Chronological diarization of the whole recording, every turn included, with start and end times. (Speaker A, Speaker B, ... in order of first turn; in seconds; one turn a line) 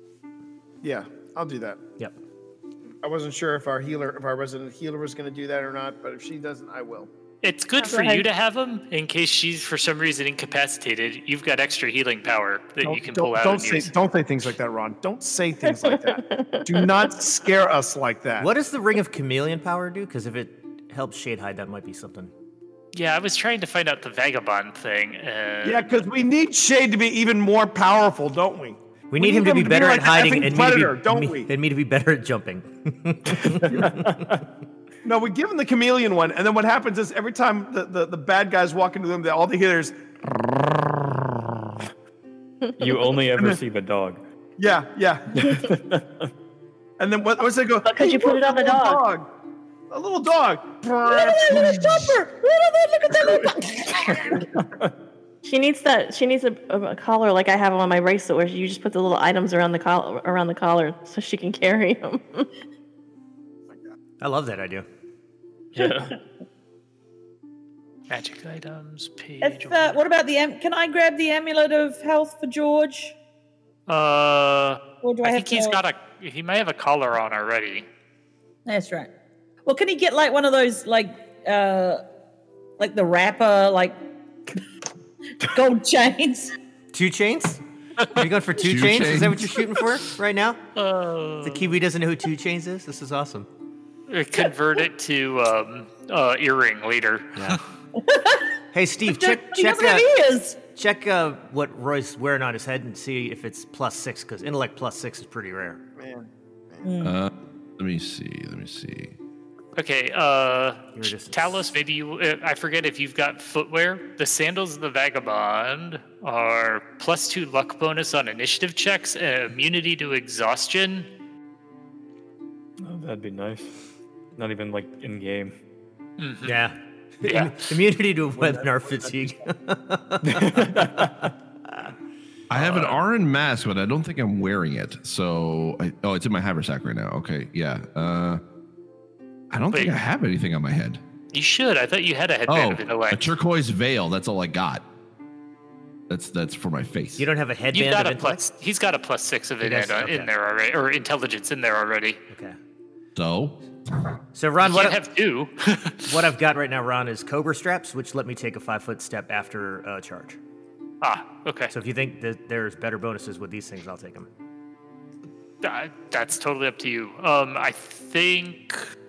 Speaker A: 0.8-1.8
Speaker A: 3.0-7.1
Speaker B: 7.4-13.9
Speaker C: 7.8-8.2
Speaker A: 12.8-18.5
Speaker C: 15.6-17.2
Speaker D: 18.4-22.3
Speaker B: 22.9-25.9
Speaker A: 25.6-31.5
Speaker D: 29.1-34.3
Speaker E: 33.3-34.4
Speaker A: 35.0-40.0
Speaker E: 42.8-44.2
Speaker A: 44.6-45.5
Speaker E: 45.3-46.3
Speaker A: 47.0-49.3
Speaker C: 47.8-49.0
Speaker A: 49.9-51.9
Speaker F: 51.0-54.4
Speaker A: 53.2-54.4
Speaker C: 55.4-62.5
Speaker D: 64.2-64.8
Speaker E: 65.7-66.1
Speaker B: 68.1-70.0
Speaker F: 69.4-73.1
Speaker B: 73.9-77.9
Speaker F: 75.0-75.8
Speaker F: 78.7-79.1
Speaker F: 79.7-82.0
Speaker F: 82.8-84.0
Speaker F: 85.4-86.5
Speaker D: 86.9-90.6
Speaker G: 88.6-89.5
Speaker B: 90.8-91.7
Speaker D: 91.4-93.5
Speaker B: 94.1-97.6
Speaker F: 98.0-98.5
Speaker D: 98.7-100.1
Speaker F: 99.1-100.6
Speaker D: 100.7-105.8
Speaker A: 106.0-106.9
Speaker F: 106.8-107.1
Speaker G: 107.0-109.2
Speaker B: 109.8-121.1
Speaker D: 111.0-111.7
Speaker E: 122.8-123.8
Speaker E: 124.3-125.5
Speaker B: 126.2-126.6
Speaker D: 126.4-131.9
Speaker B: 127.2-127.7
Speaker E: 130.2-131.3
Speaker G: 132.5-138.4
Speaker B: 132.5-133.0
Speaker G: 139.5-141.0
Speaker B: 141.3-143.3
Speaker G: 142.5-144.8
Speaker G: 146.1-147.3
Speaker D: 147.2-148.4
Speaker B: 147.7-152.2
Speaker D: 149.6-150.3
Speaker D: 152.3-152.6
Speaker G: 153.2-154.1
Speaker D: 154.3-155.0
Speaker B: 154.6-156.1
Speaker D: 156.1-160.4
Speaker B: 161.0-161.7
Speaker D: 161.7-164.3
Speaker B: 165.6-168.9